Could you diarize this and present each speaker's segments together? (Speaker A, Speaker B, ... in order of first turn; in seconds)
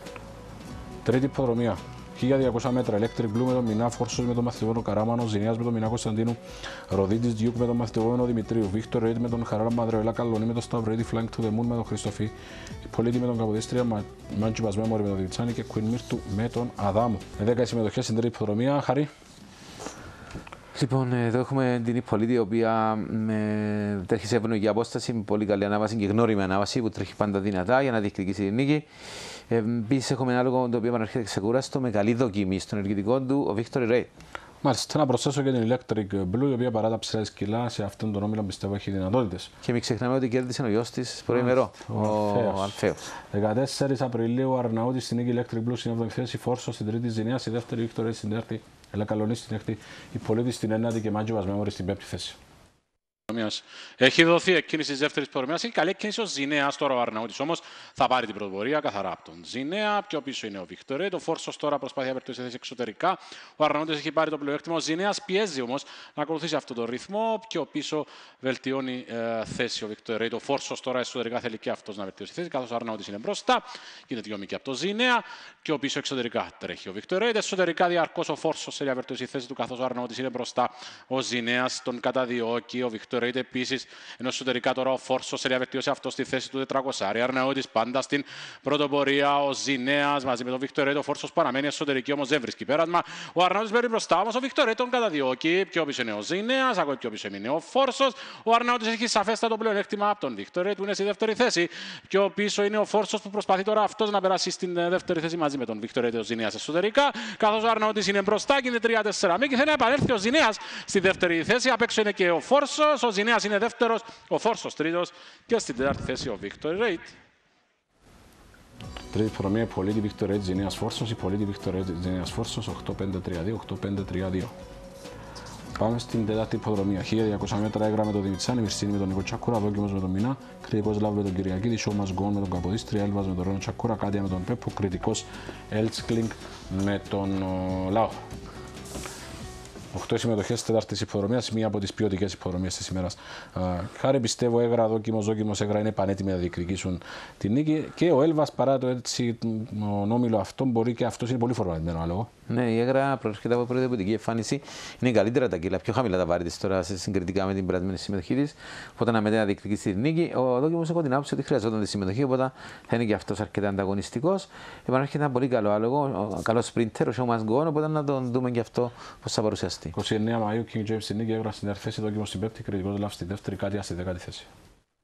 Speaker A: 1.0-19.1, 34.6-39.5, 41.3-42.8, 43.3-52.4, 119.1-124.5, 125.8-138.2, 139.9-152.3, 169.9-174.5
Speaker B: 20.7-28.9, 29.5-34.1, 39.6-43.0, 152.5-169.9
Speaker C: 53.3-117.1